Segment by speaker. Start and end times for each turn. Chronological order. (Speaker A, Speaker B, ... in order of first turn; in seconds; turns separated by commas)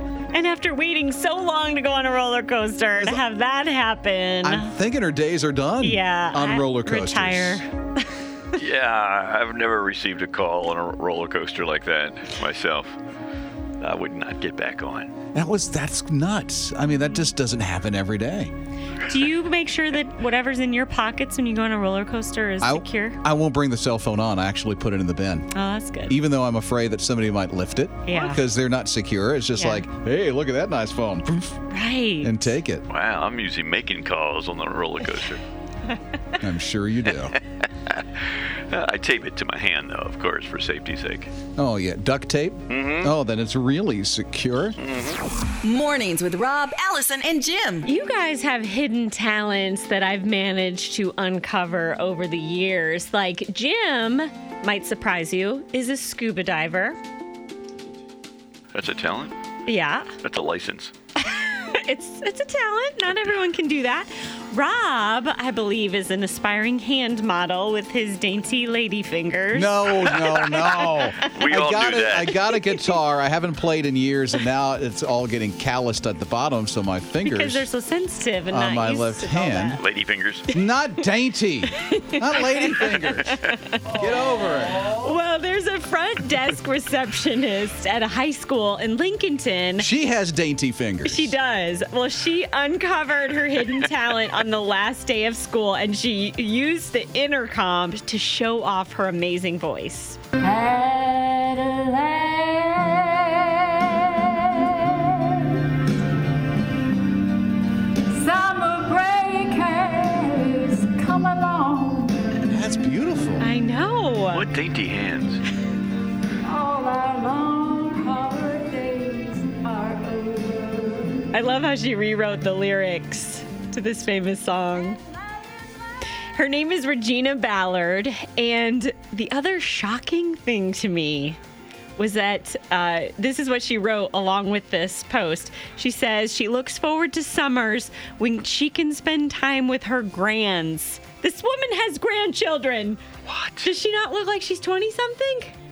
Speaker A: 0.3-4.7, Speaker B: 3.0-3.2, Speaker B: 4.4-7.6, Speaker A: 5.8-7.7, Speaker C: 8.6-12.9, Speaker C: 13.8-15.1, Speaker B: 15.3-18.5, Speaker A: 19.1-23.2, Speaker B: 22.6-25.5, Speaker A: 25.5-26.2, Speaker B: 26.1-31.6, Speaker A: 28.1-28.4, Speaker A: 29.6-29.9, Speaker A: 31.7-32.5, Speaker B: 32.2-32.9, Speaker C: 32.9-35.4, Speaker B: 36.4-37.4, Speaker C: 37.6-41.3, Speaker B: 41.6-44.8, Speaker C: 42.7-43.1, Speaker C: 44.8-45.2, Speaker D: 45.6-47.9, Speaker A: 47.8-57.0, Speaker C: 58.7-59.4, Speaker A: 59.7-60.1, Speaker C: 60.2-60.9, Speaker A: 61.2-71.0, Speaker B: 69.5-77.7, Speaker C: 71.3-72.4, Speaker A: 77.2-79.8, Speaker B: 78.5-79.8, Speaker C: 79.8-80.5, Speaker B: 80.5-85.0, Speaker A: 81.8-83.8, Speaker A: 84.9-89.9, Speaker B: 89.8-91.3, Speaker A: 91.0-100.2, Speaker E: 100.4-105.4, Speaker E: 108.1-112.1, Speaker B: 112.4-113.5, Speaker A: 113.4-114.5, Speaker C: 114.3-115.4, Speaker E: 116.4-121.2, Speaker A: 121.3-125.0, Speaker A: 126.3-131.4, Speaker A: 132.0-143.0, Speaker C: 143.2-143.7, Speaker A: 143.6-145.6